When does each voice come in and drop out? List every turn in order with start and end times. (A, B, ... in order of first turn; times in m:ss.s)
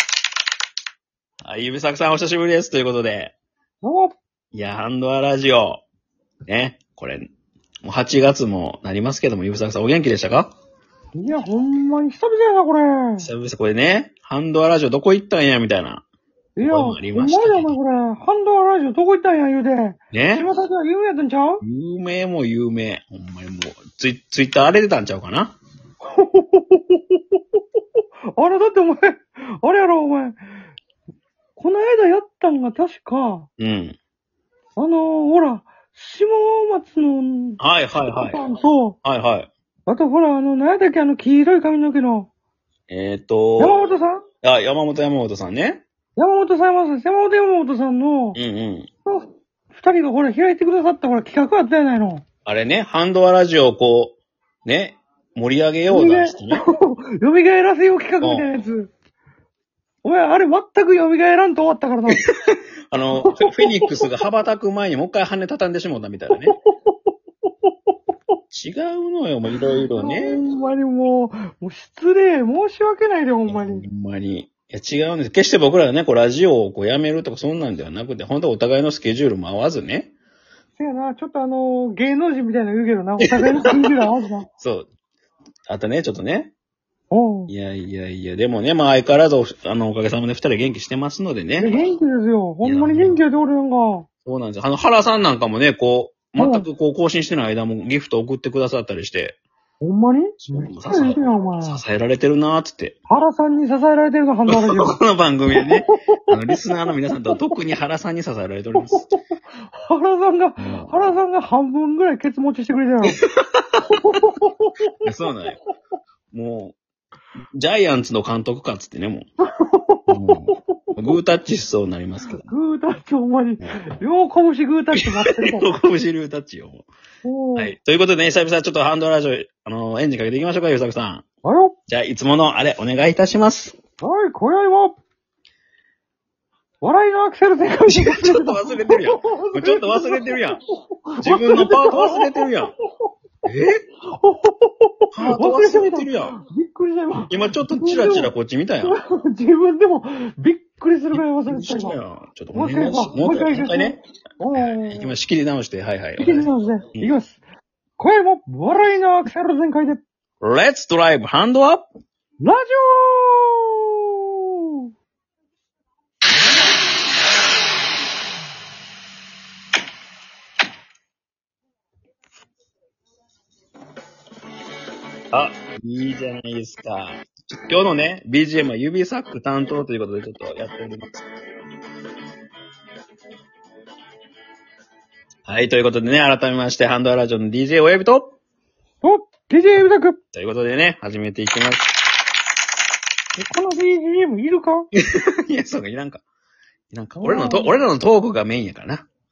0:01.4-0:03.3 A
0:03.8-0:04.1 B
0:04.5-0:05.8 A
0:06.5-0:07.3 A
0:07.8-0:10.5 A
0:11.1-0:13.3 B
0:13.2-0:16.0 A
0:16.6-0:21.6 B
0:16.6-0:17.8 A
0:20.1-0:20.4 A
0:21.6-0:25.6 A
0:26.0-0:27.4 B
0:28.0-0:30.4 B
0:31.6-0:33.5 B
0:33.6-0:34.0 A
0:34.8-0:39.0 B
0:37.6-0:38.4 A
0:39.0-0:39.5 A
0:39.9-0:42.3 B
0:42.9-0:43.8 A
0:43.6-0:44.2 B
0:44.4-0:45.8 A
0:46.2-0:48.4 B
0:48.3-0:48.9 A
0:49.0-0:52.2 B
0:52.4-0:56.6 A
0:55.9-0:58.9 B
0:58.2-0:58.5 A
1:00.0-1:02.2 B
1:02.1-1:06.5 A
1:03.1-1:03.9 B
1:08.5-1:10.4 A
1:09.9-1:13.9 B
1:13.5-1:20.1 A
1:20.8-1:24.5 B
1:23.2-1:23.7 A
1:24.6-1:24.9 A
1:25.7-1:26.5 A
1:27.1-1:27.5 B
1:27.5-1:31.7 A
1:31.6-1:34.0 B
1:32.6-1:33.2 A
1:34.2-1:39.4 A
1:36.4-1:36.7 B
1:39.8-1:41.8 B
1:40.4-1:43.0 A
1:43.1-1:45.0 B
1:44.5-1:49.1 A
1:45.5-1:46.3 B
1:48.7-1:49.2 B
1:49.7-1:53.2 B
1:50.6-1:51.2 A
1:53.0-1:54.2 A
1:53.9-1:54.9 B
1:55.0-1:55.6 A
1:56.3-1:56.7 A
1:57.5-1:59.3 A
1:59.6-2:01.0 B
2:00.1-2:02.4 A
2:02.4-2:05.7 B
2:05.0-2:06.9 A
2:07.2-2:07.7 B
2:07.6-2:11.2 A
2:11.4-2:11.8 B
2:11.9-2:13.8 A
2:14.0-2:15.0 B
2:16.8-2:22.5 B
2:17.9-2:20.6 A
2:21.2-2:22.7 A
2:23.4-2:23.8 A
2:24.0-2:28.3 B
2:25.1-2:26.3 A
2:27.3-2:29.0 A
2:28.8-2:32.0 B
2:31.1-2:34.0 A
2:32.5-2:35.1 B
2:34.5-2:37.1 A
2:36.2-2:37.4 B
2:38.0-2:40.0 B
2:40.4-2:41.9 A
2:42.4-2:44.8 B
2:55.3-3:01.2 A
3:05.4-3:08.4 A
3:09.0-3:10.2 B
3:10.3-3:11.9 A
3:13.4-3:14.9 B
3:14.9-3:16.2 A
3:16.9-3:19.0 A
3:17.2-3:17.8 B